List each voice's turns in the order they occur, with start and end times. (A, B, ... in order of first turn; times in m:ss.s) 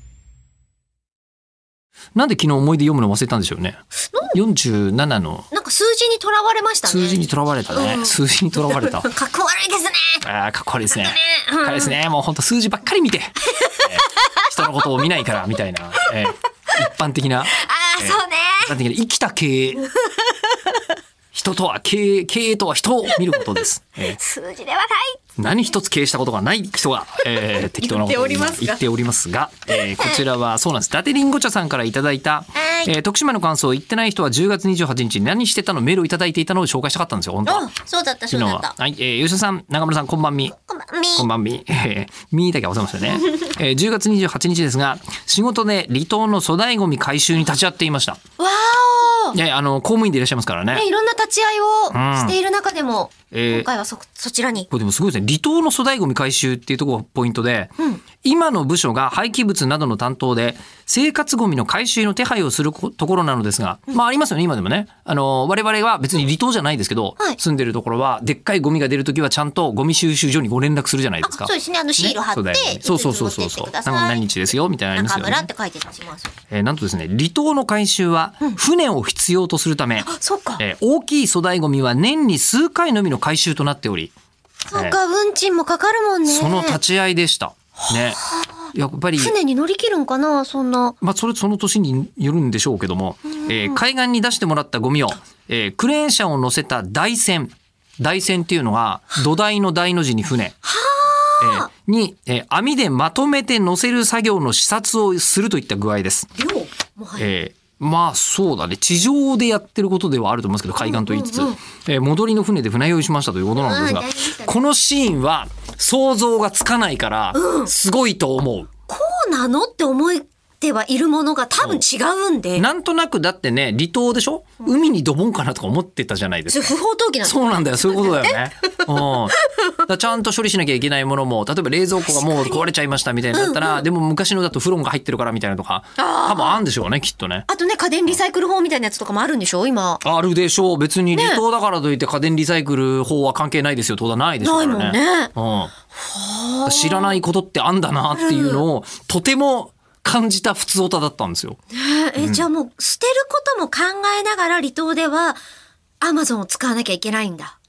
0:02.2-0:03.8 A
0:04.3-0:05.5 A
0:05.5-0:10.2 B
0:06.9-0:09.1 A
0:10.2-0:19.9 A
0:10.9-0:12.0 B
0:13.5-0:15.3 B
0:17.5-0:18.7 B
0:19.9-0:20.6 B
0:21.3-0:24.2 A
0:24.0-0:25.2 B
0:25.4-0:37.7 A
0:27.4-0:28.8 B
0:29.7-0:30.2 B
0:32.6-0:32.9 B
0:37.4-0:38.7 B
0:38.3-0:40.5 A
0:40.6-0:41.3 B
0:41.2-0:48.2 A
0:48.4-0:49.4 B
0:49.3-0:50.8 A
0:50.7-0:54.7 B
0:51.9-0:52.3 A
0:53.3-0:53.7 A
0:54.7-1:15.5 A
1:11.2-1:14.4 B
1:14.9-1:16.4 B
1:16.5-1:20.1 A
1:20.0-1:20.6 B
1:20.6-1:24.1 A
1:24.7-1:26.8 B
1:26.3-1:28.2 A
1:27.8-1:28.6 B
1:28.7-1:29.3 A
1:29.2-1:31.0 B
1:31.0-1:40.6 A
1:33.4-1:33.8 B
1:40.6-1:41.7 B
1:41.4-1:46.3 A
1:46.4-1:47.3 B
1:47.2-1:58.7 A
1:50.8-1:51.6 B
1:53.6-1:54.6 B
1:57.3-1:57.7 B
1:58.9-2:02.7 B
2:02.6-2:17.5 A
2:06.5-2:08.4 B
2:09.0-2:09.6 B
2:12.0-2:12.6 B
2:13.3-2:13.8 B
2:16.0-2:16.6 B
2:17.5-2:20.0 B
2:20.0-2:25.7 A
2:21.1-2:21.4 B
2:24.4-2:25.3 B
2:26.0-2:27.2 B
2:26.6-2:31.6 A
2:28.2-2:28.6 B
2:31.7-2:35.4 B
2:32.2-2:32.4 A
2:36.0-2:37.6 B